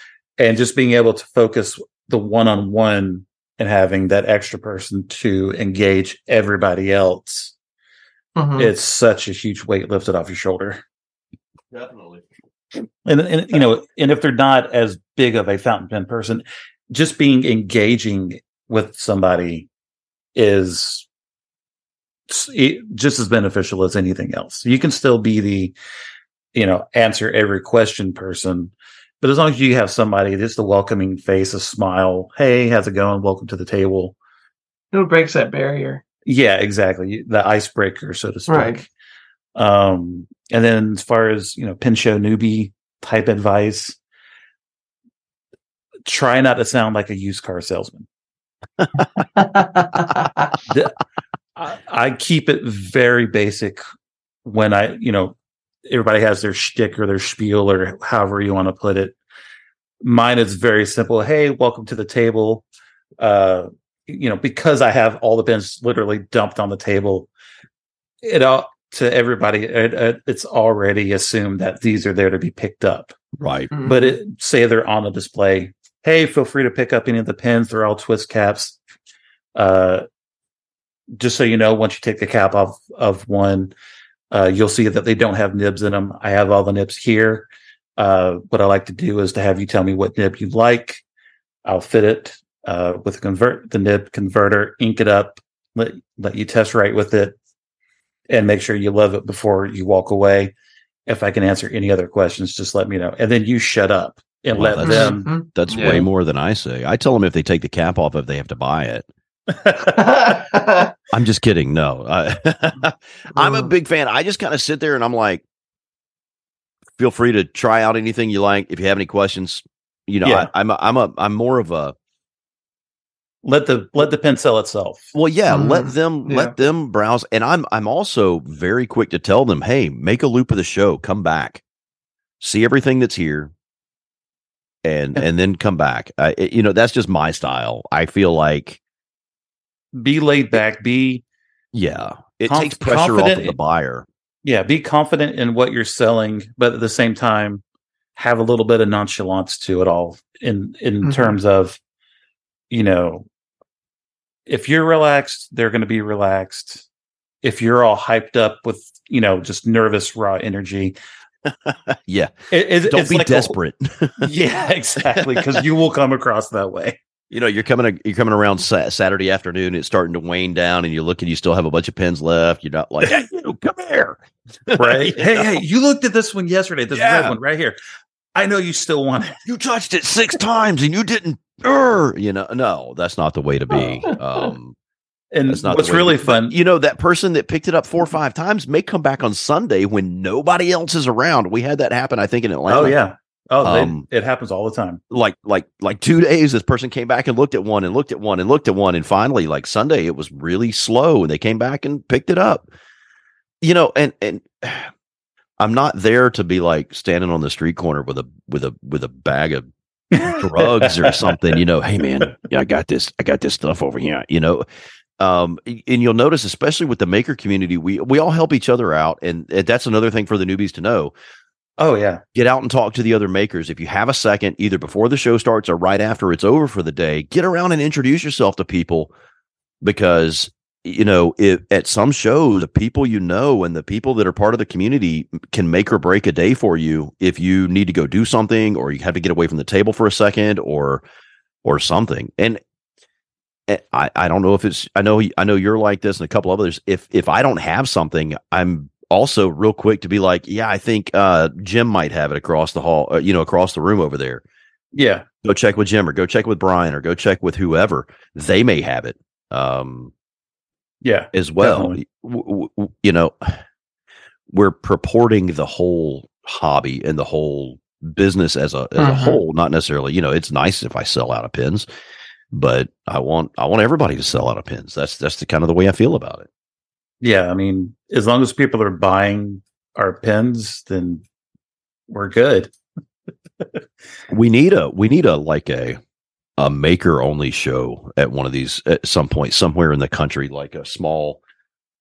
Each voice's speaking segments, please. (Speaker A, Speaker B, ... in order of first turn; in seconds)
Speaker A: 0.4-7.5, 8.6-10.8, 13.1-19.7, 20.4-21.1, 22.3-25.8, 26.5-34.1, 36.3-38.9, 39.6-44.0, 46.1-48.1, 50.7-51.0, 51.6-53.8, 54.5-55.4, 55.9-59.2, 60.0-62.6, 63.2-67.3, 68.2-73.2, 73.8-78.8, 79.6-80.0, 81.2-83.7, 84.3-87.5, 88.0-91.0, 91.7-97.3, 98.3-100.5, 101.1-105.3, 109.5-110.4, 120.2-120.5, 123.4-125.1, 139.9-141.2, 142.5-143.6, 144.4-147.6, 148.2-151.8, 152.7-153.3, 154.5-156.9, 157.4-161.0, 162.5-163.6, 164.2-167.0, 174.8-177.8, 178.3-179.4, 185.3-186.6, 192.7-195.0, 210.1-211.6, 221.8-222.2, 254.9-255.2, 261.0-262.0, 277.2-281.2, 282.1-282.7
Speaker B: 8.4-8.7, 34.9-36.0, 38.5-38.8, 49.4-50.5, 73.7-74.2, 104.8-106.1, 109.8-110.9, 113.4-113.7, 125.5-126.5, 151.0-151.3, 184.1-184.5, 269.0-269.4
Speaker C: 11.7-12.3, 48.8-49.3, 73.4-73.7, 104.5-109.1, 111.1-115.4, 117.0-122.0, 125.1-131.6, 132.4-133.5, 134.8-138.8, 141.7-144.1, 161.7-162.3, 162.9-164.3, 165.2-165.6, 167.3-175.6, 176.9-177.4, 179.5-184.8, 185.5-193.0, 193.6-194.1, 195.1-202.7, 203.6-204.9, 205.6-209.7, 210.2-214.7, 215.2-221.1, 222.3-229.1, 229.8-241.0, 241.6-242.6, 243.7-254.4, 255.4-260.1, 261.3-263.6, 264.5-271.9, 272.5-276.5, 284.3-286.0, 286.6-291.4